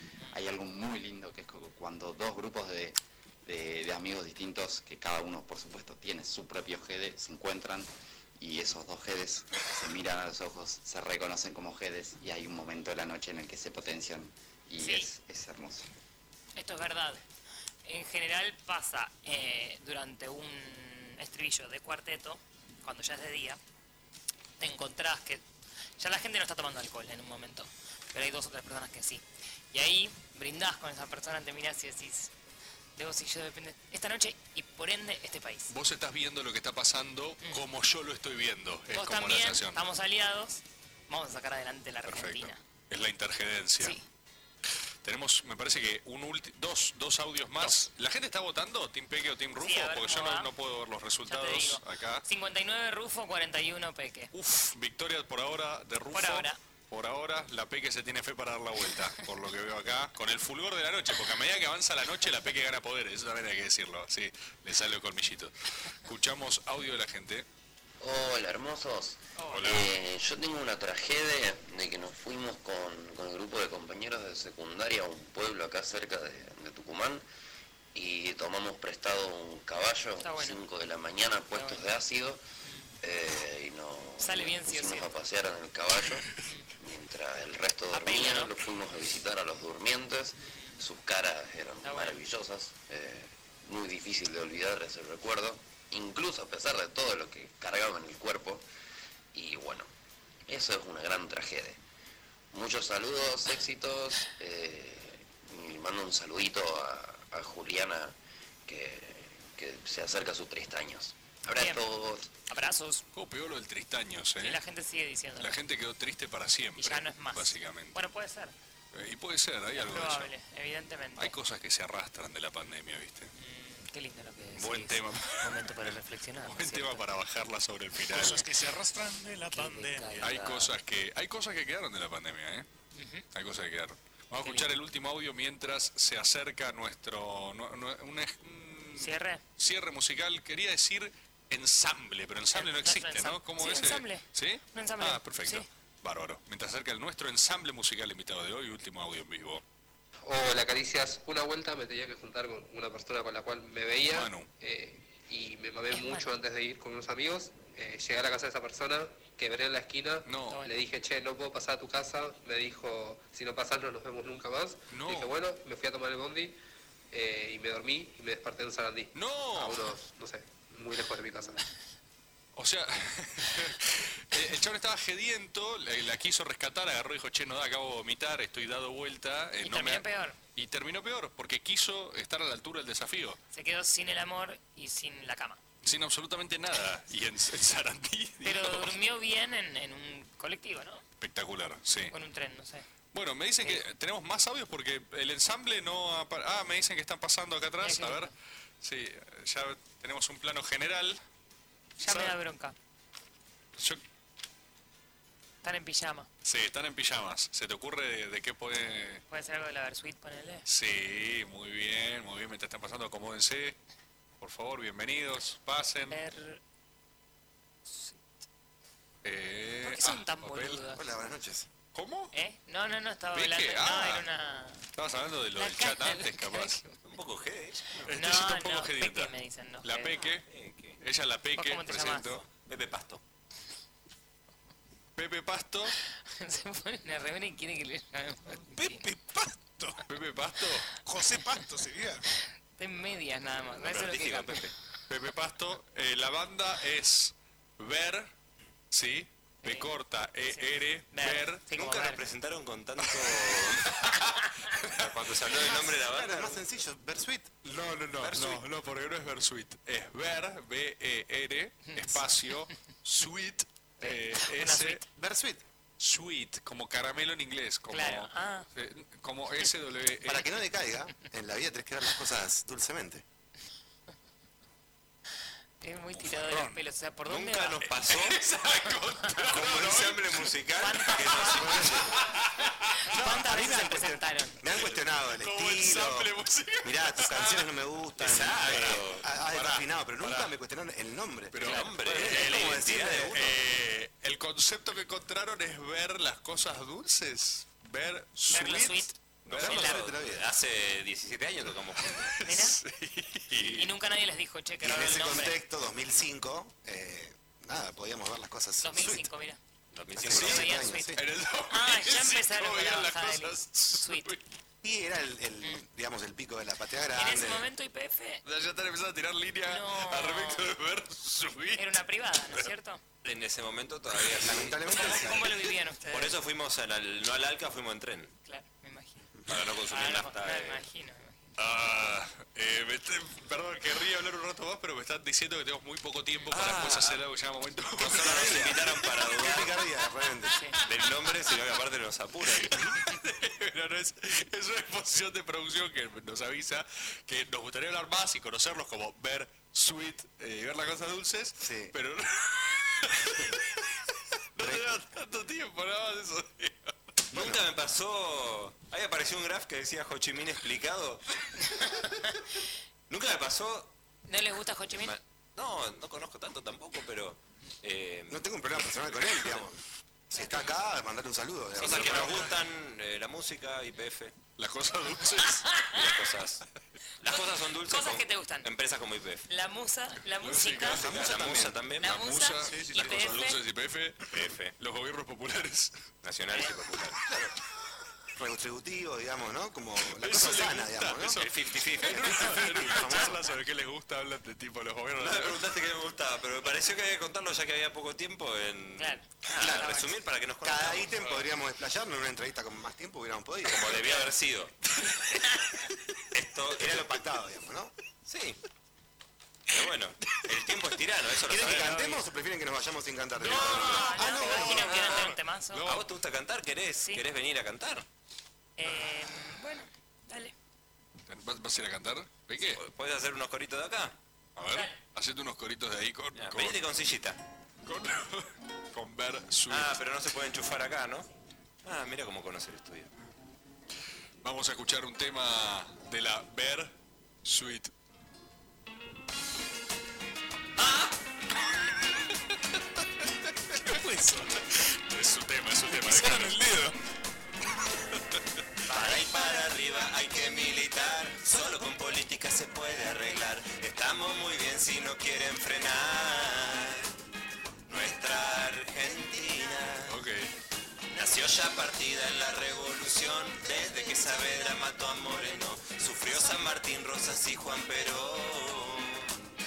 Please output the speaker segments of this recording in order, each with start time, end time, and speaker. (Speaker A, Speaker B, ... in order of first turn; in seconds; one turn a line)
Speaker A: 0.3-15.8
Speaker B: 14.8-15.1
Speaker B: 16.6-17.2
Speaker B: 17.8-23.6
Speaker B: 24.6-25.4
Speaker B: 26.0-32.3
Speaker B: 33.0-35.7
Speaker C: 35.7-39.8
Speaker B: 38.9-42.6
Speaker C: 42.0-44.0
Speaker C: 45.0-52.2
Speaker B: 49.6-50.5
Speaker B: 51.3-54.3
Speaker C: 54.3-65.5
Speaker B: 56.1-56.6
Speaker C: 66.0-67.4
Speaker D: 68.0-77.2
Speaker B: 69.3-69.8
Speaker C: 69.5-69.9
Speaker D: 77.9-82.4
Speaker B: 80.2-80.7
Speaker B: 81.5-81.9
Speaker D: 83.0-86.3
Speaker B: 84.2-85.2
Speaker B: 86.4-86.7
Speaker D: 86.8-98.6
Speaker B: 87.9-88.5
Speaker B: 91.8-92.2
Speaker D: 99.3-99.9
Speaker D: 100.5-101.8
Speaker D: 102.5-108.1
Speaker D: 108.7-112.3
Speaker B: 111.6-111.8
Speaker B: 112.5-113.0
Speaker C: 113.1-114.6
Speaker B: 114.4-115.6
Speaker C: 115.4-118.0
Speaker B: 116.8-118.5
Speaker C: 118.9-120.3
Speaker B: 119.8-121.3
Speaker C: 121.2-123.3
Speaker B: 123.3-127.0
Speaker C: 124.6-128.5
Speaker E: 128.1-130.2
Speaker B: 129.5-130.7
Speaker C: 130.2-132.7
Speaker B: 132.9-133.2
Speaker C: 133.3-149.6
Speaker B: 138.9-139.4
Speaker B: 142.5-145.7
Speaker F: 150.2-166.6
Speaker C: 154.0-154.5
Speaker B: 155.9-156.3
Speaker C: 160.2-160.6
Speaker B: 160.5-160.8
Speaker C: 164.9-165.3
Speaker F: 167.1-171.6
Speaker C: 169.1-169.9
Speaker C: 172.6-180.0
Speaker B: 179.6-180.4
Speaker C: 180.5-183.4
Speaker B: 183.5-185.6
Speaker C: 185.8-189.0
Speaker B: 188.4-191.0
Speaker C: 191.2-192.1
Speaker B: 192.1-192.8
Speaker C: 193.1-201.2
Speaker B: 197.8-198.3
Speaker B: 202.0-202.7
Speaker C: 202.1-202.3
Speaker B: 205.6-206.3
Speaker C: 206.4-209.2
Speaker B: 209.3-210.7
Speaker C: 210.7-213.8
Speaker C: 214.4-216.2
Speaker B: 216.1-216.6
Speaker B: 217.8-218.2
Speaker C: 219.2-220.8
Speaker B: 219.8-221.0
Speaker G: 220.9-221.7
Speaker C: 221.9-222.3
Speaker B: 222.3-224.8
Speaker C: 223.3-224.2
Speaker C: 224.9-226.8
Speaker B: 225.6-227.0
Speaker H: 227.0-228.0
Speaker C: 228.0-230.5
Speaker B: 228.1-230.3
Speaker H: 230.5-231.0
Speaker C: 231.0-232.4
Speaker B: 231.6-232.3
Speaker H: 232.4-233.2
Speaker C: 235.2-235.9
Speaker B: 236.1-239.0
Speaker E: 238.6-240.0
Speaker C: 240.1-240.9
Speaker E: 241.0-242.2
Speaker B: 242.8-244.6
Speaker H: 243.7-244.7
Speaker C: 245.1-248.3
Speaker C: 248.9-251.6
Speaker B: 249.6-249.9
Speaker B: 250.5-252.2
Speaker H: 251.7-253.9
Speaker H: 254.9-256.6
Speaker G: 255.5-257.5
Speaker C: 257.6-265.0
Speaker H: 258.2-258.6
Speaker B: 261.9-262.5
Speaker B: 264.0-265.0
Speaker G: 265.1-265.6
Speaker C: 266.0-270.5
Speaker B: 267.9-268.7
Speaker G: 270.2-273.2
Speaker B: 275.8-277.8
Speaker E: 276.2-276.8
Speaker H: 277.3-278.4
Speaker C: 277.8-280.5
Speaker H: 279.5-282.1
Speaker B: 280.8-281.7
Speaker C: 281.2-283.2
Speaker G: 281.7-282.0
Speaker B: 283.1-284.6
Speaker G: 283.2-286.3
Speaker C: 284.7-287.7
Speaker G: 286.8-293.4
Speaker H: 288.2-289.2
Speaker C: 288.4-290.5
Speaker C: 291.5-300.0
Speaker H: 291.6-293.6
Speaker B: 298.5-300.0
Speaker H: 299.4-302.4
Speaker G: 299.6-300.5
Speaker C: 302.0-303.8
Speaker B: 302.4-302.8
Speaker H: 303.5-303.9
Speaker B: 303.8-305.6
Speaker G: 304.8-309.3
Speaker B: 308.8-309.6
Speaker H: 309.9-310.8
Speaker G: 310.2-311.2
Speaker C: 310.3-314.4
Speaker B: 310.3-311.1
Speaker B: 311.7-314.3
Speaker G: 314.8-317.7
Speaker B: 317.1-318.4
Speaker C: 318.4-322.7
Speaker B: 319.7-320.6
Speaker B: 321.8-323.0
Speaker H: 323.2-325.5
Speaker C: 324.2-325.1
Speaker G: 324.4-325.5
Speaker B: 324.9-326.4
Speaker H: 326.1-328.3
Speaker B: 328.4-329.2
Speaker H: 329.5-330.8
Speaker B: 329.9-331.5
Speaker C: 331.6-339.2
Speaker H: 336.5-337.2
Speaker H: 338.0-339.8
Speaker G: 338.1-340.6
Speaker H: 340.8-342.7
Speaker C: 341.2-341.5
Speaker C: 342.4-353.9
Speaker G: 351.6-351.9
Speaker C: 354.5-356.9
Speaker G: 354.6-355.0
Speaker G: 357.3-357.6
Speaker H: 357.3-361.2
Speaker B: 361.8-362.1
Speaker H: 363.1-363.9
Speaker B: 364.3-365.1
Speaker H: 365.0-369.6
Speaker G: 368.3-369.8
Speaker G: 370.3-372.5
Speaker H: 370.4-370.6
Speaker H: 371.8-374.3
Speaker C: 371.8-372.6
Speaker C: 374.6-375.8
Speaker B: 375.7-376.1
Speaker H: 375.9-376.6
Speaker H: 377.2-379.4
Speaker B: 377.2-378.7
Speaker B: 379.5-381.1
Speaker C: 380.4-385.9
Speaker H: 381.0-382.1
Speaker G: 381.0-381.7
Speaker B: 382.0-383.6
Speaker H: 383.0-383.3
Speaker H: 384.3-384.7
Speaker H: 386.2-387.5
Speaker G: 388.4-391.4
Speaker C: 390.0-395.6
Speaker H: 391.4-393.3
Speaker G: 392.3-393.3
Speaker H: 395.2-401.5
Speaker B: 399.0-400.1
Speaker G: 400.6-404.1
Speaker H: 403.6-404.7
Speaker H: 406.3-407.1
Speaker G: 406.8-407.9
Speaker H: 408.2-408.6
Speaker H: 409.7-412.0
Speaker G: 411.5-415.3
Speaker B: 411.6-412.2
Speaker B: 413.4-415.8
Speaker C: 413.5-416.1
Speaker H: 413.5-415.3
Speaker H: 415.9-418.1
Speaker B: 418.8-420.5
Speaker C: 421.3-422.8
Speaker H: 422.8-424.1
Speaker C: 424.6-426.8
Speaker B: 424.7-425.0
Speaker H: 426.3-427.4
Speaker C: 427.8-430.0
Speaker H: 429.7-431.3
Speaker H: 431.8-433.1
Speaker C: 434.4-436.9
Speaker C: 437.4-437.9
Speaker H: 440.8-441.0
Speaker E: 443.8-444.6
Speaker C: 445.1-446.6
Speaker E: 445.9-446.9
Speaker H: 448.9-457.1
Speaker H: 457.9-460.1
Speaker C: 460.1-460.5
Speaker H: 461.1-469.4